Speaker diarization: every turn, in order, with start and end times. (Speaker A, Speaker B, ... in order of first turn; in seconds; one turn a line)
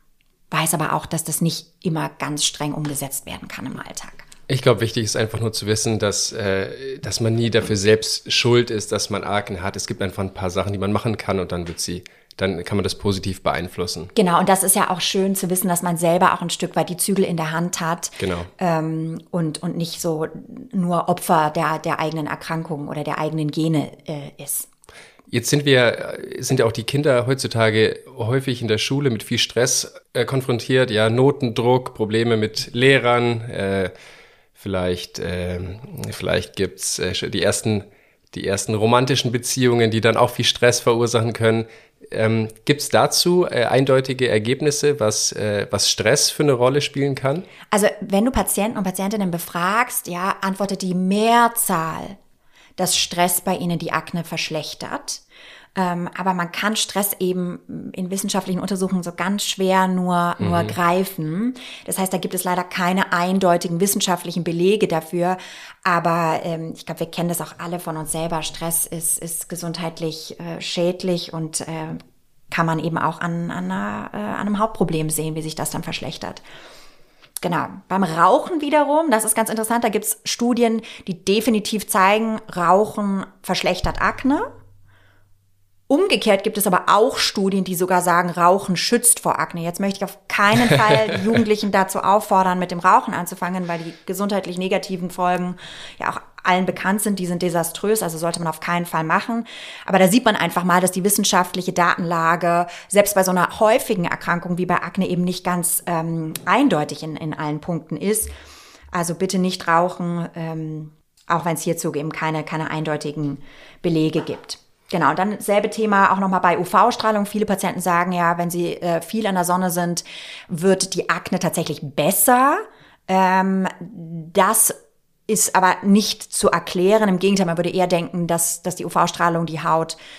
Speaker A: 0.5-4.2
Speaker B: 4.5-14.1
Speaker A: 14.1-24.7
Speaker B: 18.2-18.5
Speaker B: 25.3-33.9
Speaker B: 34.5-47.4
Speaker A: 47.7-52.2
Speaker A: 52.8-55.2
Speaker A: 55.8-72.0
Speaker B: 60.4-60.8
Speaker A: 72.5-76.4
Speaker A: 77.4-84.5
Speaker A: 85.9-108.3
Speaker A: 108.9-124.8
Speaker A: 125.3-130.0